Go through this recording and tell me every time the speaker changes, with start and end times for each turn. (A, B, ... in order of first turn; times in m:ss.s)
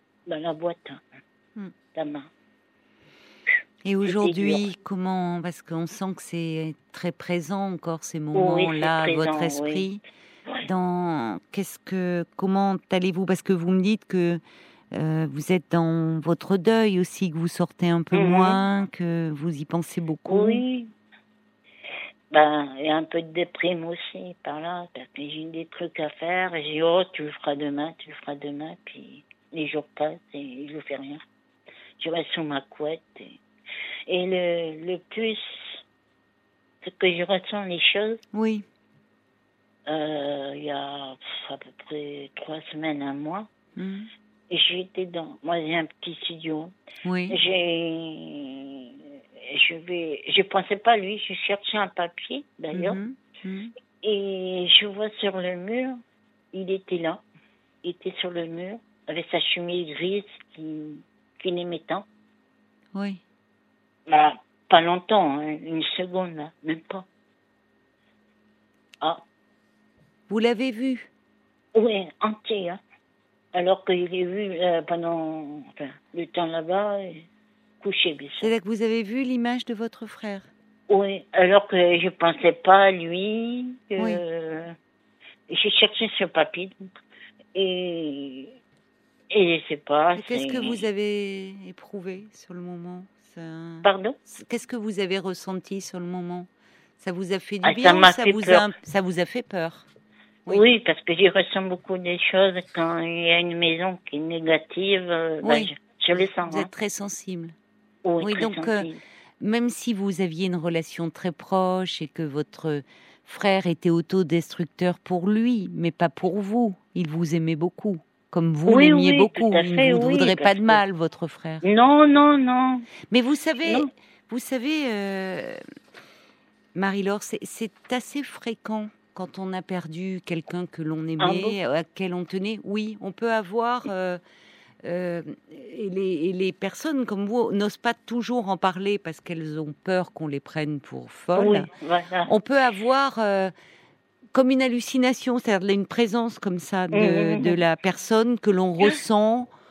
0:00.3-0:01.0 A
0:01.9-0:02.3 A
0:03.8-0:10.0 B
0:04.0-0:04.6 A
0:08.3-0:09.8 A
0:10.6-0:14.4 B
0:14.9-0:20.6 B
0:18.1-0:18.6 A
0:20.3-0:20.9 A
0:22.3-0:31.2 A
0:32.0-0:33.4 A
0:34.1-0:35.8 A
0:36.8-0:38.2 A
0:38.3-0:38.6 B
0:39.9-0:43.5 A
0:43.8-0:44.1 B
0:44.5-0:46.7 A
0:47.0-0:47.4 B
0:47.3-0:53.0 A
0:52.7-0:53.7 B
0:54.0-0:56.0 A
0:56.5-0:57.2 A
0:57.8-1:02.0 A
1:02.9-1:03.2 B
1:04.1-1:07.1 A
1:10.3-1:11.1 B
1:11.7-1:12.8 A
1:13.5-1:17.3 A
1:17.8-1:18.5 A
1:18.4-1:20.5 B
1:20.9-1:24.7 A
1:25.5-1:26.8 A
1:27.5-1:28.5 A
1:29.3-1:30.8 A
1:30.2-1:36.5 B
1:33.8-1:34.2 A
1:37.0-1:39.9 B
1:37.6-1:38.7 A
1:40.5-1:46.7 A
1:45.4-1:47.5 B
1:48.0-1:49.0 A
1:48.2-1:48.9 B
1:49.4-2:01.6 B
1:58.6-2:00.8 A
2:01.6-2:02.9 A
2:03.1-2:05.6 B
2:03.6-2:03.9 A
2:06.7-2:14.2 B
2:11.2-2:11.6 A
2:14.8-2:21.7 B
2:21.3-2:22.3 A
2:22.3-2:23.5 B
2:24.3-2:29.5 B
2:26.9-2:27.6 A